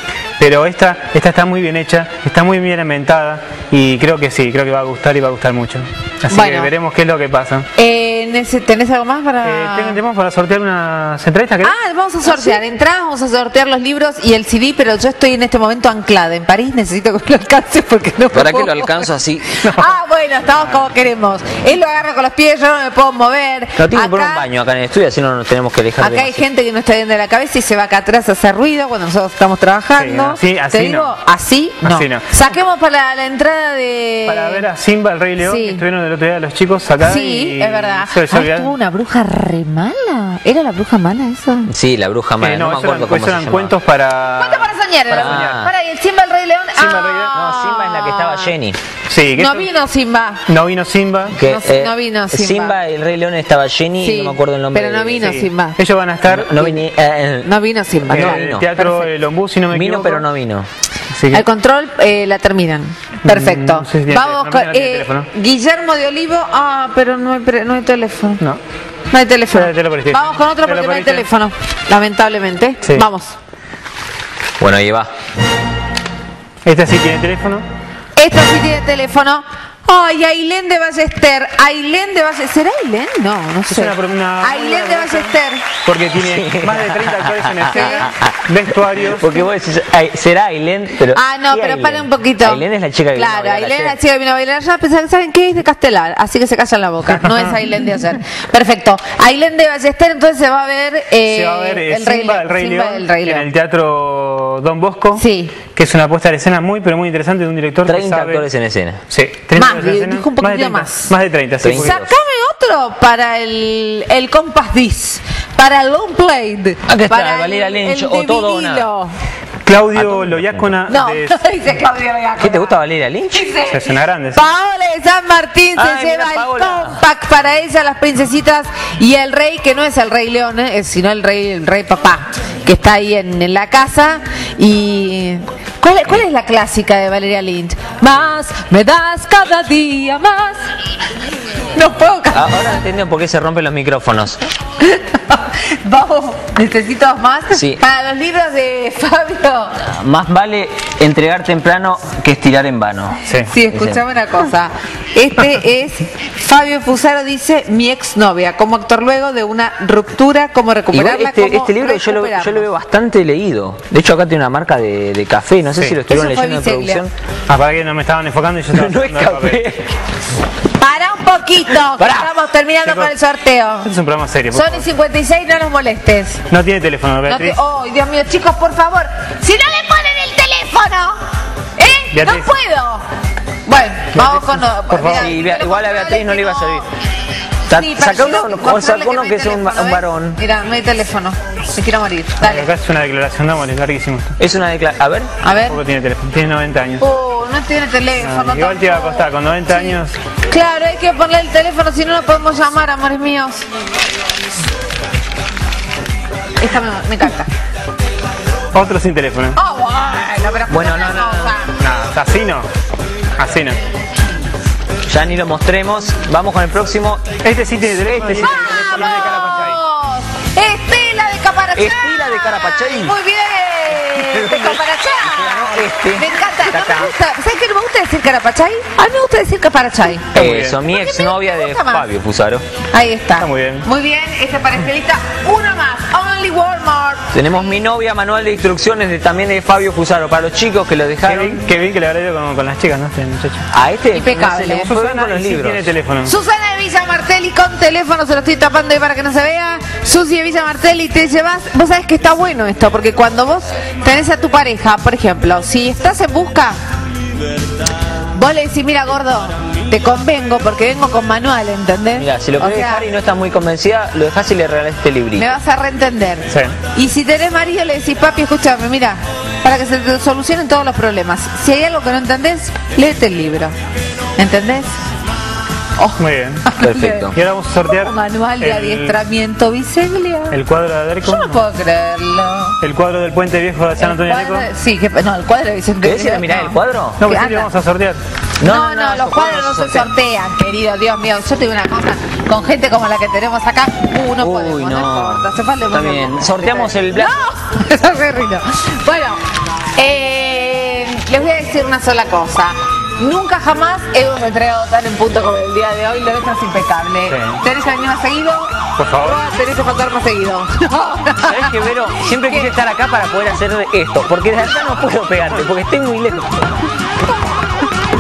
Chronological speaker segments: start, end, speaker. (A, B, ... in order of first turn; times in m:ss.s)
0:00.4-0:07.6 A
0:06.3-0:06.7 B
0:07.8-0:10.0 B
0:09.4-0:12.6 A
0:11.6-0:19.1 B
0:18.3-0:19.6 C
0:19.6-0:20.0 A
0:19.7-0:24.4 B
0:23.8-0:26.4 C
0:26.0-0:34.6 B
0:29.9-0:31.1 A
0:31.8-0:32.3 A
0:34.2-0:38.7 A
0:35.4-0:35.8 B
0:37.0-0:41.7 B
0:41.7-0:43.7 C
0:42.4-0:45.7 A
0:44.4-0:48.5 B
0:45.1-0:45.7 C
0:46.8-0:47.4 A
0:47.3-0:48.8 C
0:49.1-0:49.7 A
0:49.4-0:50.4 B
0:50.5-0:51.4 A
0:51.3-0:55.3 C
0:51.4-0:52.8 B
0:54.0-0:55.8 B
0:55.2-0:56.8 A
0:56.3-0:57.5 C
0:57.4-0:59.1 B
0:58.1-0:58.7 C
0:58.1-1:00.2 A
0:59.7-1:00.7 C
1:01.1-1:01.4 A
1:01.3-1:08.4 B
1:03.2-1:05.3 A
1:09.1-1:13.4 B
1:09.5-1:11.3 A
1:14.6-1:15.1 C
1:16.6-1:17.6 A
1:18.2-1:25.6 B
1:23.7-1:29.4 A
1:26.1-1:28.4 C
1:27.7-1:28.1 B
1:29.0-1:34.0 C
1:31.1-1:43.4 B
1:37.1-1:37.6 A
1:41.2-1:45.2 A
1:45.2-1:45.6 B
1:45.7-1:48.5 A
1:47.8-1:49.0 C
1:49.1-1:52.0 A
1:49.5-1:51.1 B
1:51.6-1:52.1 C
1:51.8-1:59.1 B
1:56.9-1:58.9 C
1:59.6-2:01.4 A
1:59.9-2:00.7 C
2:00.9-2:02.8 B
2:02.4-2:03.5 C
2:03.3-2:20.6 B
2:03.7-2:04.4 A
2:05.8-2:07.0 C
2:21.7-2:22.8 B
2:22.3-2:24.4 C
2:24.8-2:29.8 B
2:27.5-2:27.8 C
2:29.8-2:34.0 C
2:33.2-2:33.5 A
2:33.4-2:42.7 B
2:40.9-2:47.1 C
2:45.7-2:46.0 A
2:46.1-2:47.1 B
2:47.5-2:49.6 A
2:48.7-2:49.9 C
2:50.8-2:53.9 B
2:51.8-2:52.3 C
2:52.8-2:53.1 A
2:53.8-2:54.9 A
2:54.5-2:56.4 B
2:56.5-2:57.6 A
2:57.2-3:01.2 B
3:01.8-3:03.0 B
3:02.1-3:02.5 A
3:03.6-3:06.9 B
3:04.1-3:05.3 A
3:05.1-3:06.9 C
3:07.7-3:10.4 C
3:07.7-3:12.7 B
3:12.4-3:14.4 A
3:14.4-3:15.3 C
3:15.4-3:15.8 B
3:15.5-3:17.0 A
3:17.0-3:23.6 B
3:18.2-3:20.2 A
3:26.6-3:27.5 B
3:28.7-3:29.6 A
3:29.5-3:31.7 B
3:30.7-3:31.5 C
3:31.8-3:32.7 A
3:33.4-3:33.8 A
3:35.1-3:37.2 C
3:37.4-3:39.8 A
3:38.0-3:39.2 C
3:38.4-3:52.1 B
3:41.7-3:43.2 C
3:43.9-3:47.1 C
3:50.3-3:50.8 A
3:50.3-3:52.6 C
3:52.9-3:57.6 B
3:53.4-3:53.8 A
3:57.3-4:01.6 C
4:01.2-4:03.7 A
4:03.7-4:05.9 C
4:04.1-4:04.9 B
4:04.6-4:06.3 A
4:06.2-4:16.8 B
4:18.3-4:23.1 B
4:22.1-4:25.5 C
4:25.3-4:33.7 B
4:26.5-4:26.7 A
4:34.4-4:35.0 B
4:36.0-4:37.3 B
4:36.2-4:36.6 A
4:36.8-4:37.4 C
4:37.3-4:39.2 A
4:37.8-4:40.6 B
4:40.5-4:41.6 A
4:41.2-4:42.8 B
4:42.8-4:44.6 A
4:44.0-4:47.7 B
4:46.0-4:47.2 C
4:47.2-4:48.2 A
4:48.6-4:50.1 C
4:48.6-4:59.4 B
4:54.4-4:57.3 C
5:00.0-5:12.7 B
5:07.3-5:07.6 A
5:09.0-5:09.4 A
5:11.4-5:16.7 C